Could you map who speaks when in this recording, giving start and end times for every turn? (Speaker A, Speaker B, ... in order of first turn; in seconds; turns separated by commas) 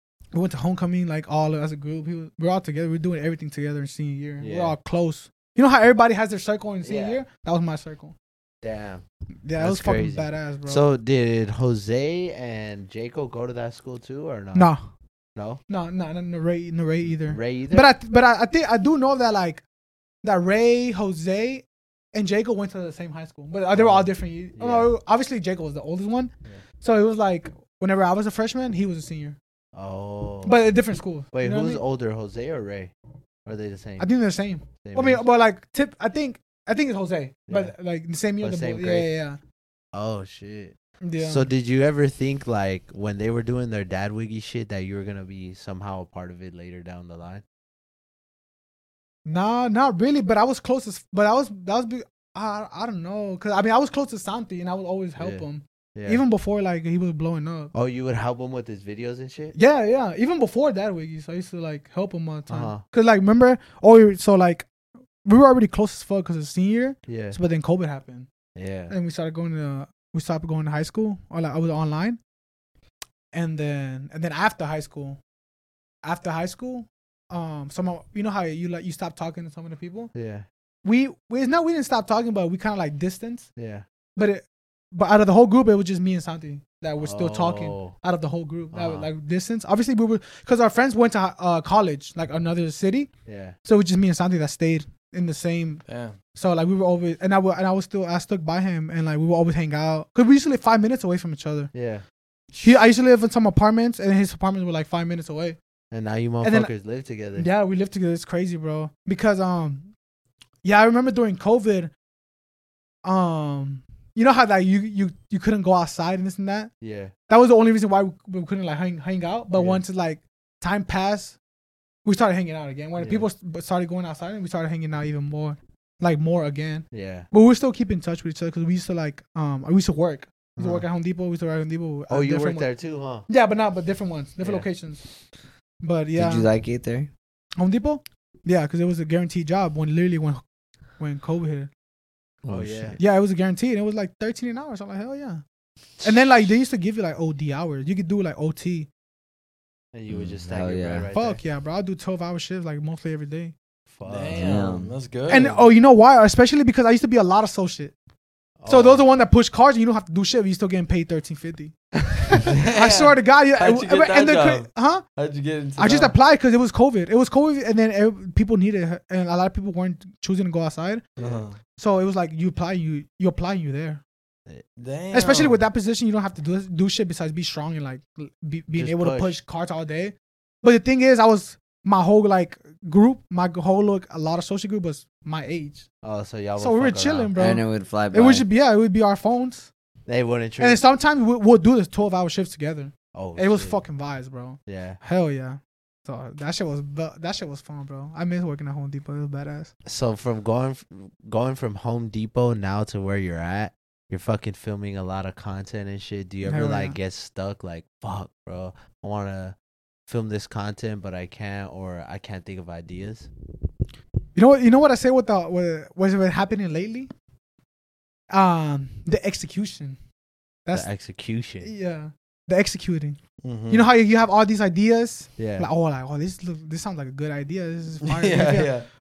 Speaker A: 0.3-8.2, Speaker B: 4.4-4.8, Speaker B: 6.8-7.2, Speaker B: 8.6-9.0, Speaker A: 9.4-10.8, Speaker B: 9.6-14.7, Speaker A: 14.5-14.8, Speaker B: 15.3-15.6, Speaker A: 15.7-19.6, Speaker B: 17.1-17.9, Speaker A: 20.2-29.4, Speaker B: 23.7-24.9, Speaker B: 29.7-30.6, Speaker A: 30.4-31.8, Speaker B: 31.3-32.9, Speaker B: 33.5-34.1, Speaker A: 34.0-39.4, Speaker B: 34.8-35.3, Speaker B: 37.5-37.7, Speaker B: 38.4-39.1, Speaker B: 39.9-47.4, Speaker A: 41.0-41.5, Speaker A: 49.3-57.7, Speaker B: 55.2-56.2, Speaker B: 57.7-59.6, Speaker A: 59.5-64.7, Speaker B: 62.5-62.9, Speaker A: 65.2-68.3, Speaker B: 67.1-67.4, Speaker B: 68.5-68.9, Speaker A: 68.9-72.2, Speaker A: 73.3-75.2, Speaker A: 76.0-80.1, Speaker B: 80.1-80.5, Speaker A: 80.8-83.5, Speaker B: 83.6-83.8, Speaker A: 84.2-93.1, Speaker B: 87.0-88.0, Speaker B: 88.7-89.1, Speaker B: 93.3-93.6, Speaker A: 93.6-101.7, Speaker C: 95.8-96.2, Speaker B: 101.7-102.0, Speaker A: 102.6-105.6, Speaker B: 105.9-107.5, Speaker A: 106.4-106.7, Speaker A: 107.3-109.9, Speaker A: 110.6-111.9, Speaker A: 113.0-116.7, Speaker B: 116.8-117.2, Speaker A: 117.3-121.4, Speaker B: 119.5-119.8, Speaker A: 122.0-132.7, Speaker B: 123.0-123.3, Speaker B: 126.9-127.3, Speaker B: 130.6-130.9, Speaker B: 132.1-133.3, Speaker A: 133.3-135.0, Speaker B: 134.4-134.7, Speaker A: 135.8-136.5, Speaker D: 136.2-137.1, Speaker A: 137.6-140.4, Speaker A: 141.0-141.7, Speaker D: 142.4-143.0, Speaker B: 142.5-143.0, Speaker A: 143.0-145.4, Speaker A: 146.0-148.9, Speaker B: 149.9-151.4, Speaker D: 150.1-151.1, Speaker A: 151.1-153.6, Speaker B: 153.9-154.8, Speaker C: 154.1-155.6, Speaker D: 154.3-155.0, Speaker A: 155.3-157.9, Speaker B: 155.3-155.6, Speaker B: 158.6-159.1, Speaker A: 158.7-165.1, Speaker C: 162.4-166.2, Speaker A: 165.8-171.1, Speaker C: 171.2-171.6, Speaker A: 171.7-174.0, Speaker C: 174.8-175.6, Speaker A: 175.1-185.9, Speaker B: 178.7-179.3, Speaker B: 186.0-187.3, Speaker A: 186.6-189.7, Speaker D: 187.3-188.5, Speaker B: 190.1-190.8, Speaker A: 190.6-199.7, Speaker B: 193.1-193.8, Speaker B: 194.7-195.0, Speaker B: 199.8-209.6, Speaker A: 206.4-207.0, Speaker B: 210.1-213.3, Speaker A: 214.3-217.1, Speaker A: 218.3-220.0, Speaker B: 220.7-221.7, Speaker A: 221.6-223.2, Speaker C: 223.4-223.9, Speaker A: 223.7-228.7, Speaker B: 225.4-225.7, Speaker C: 228.0-228.9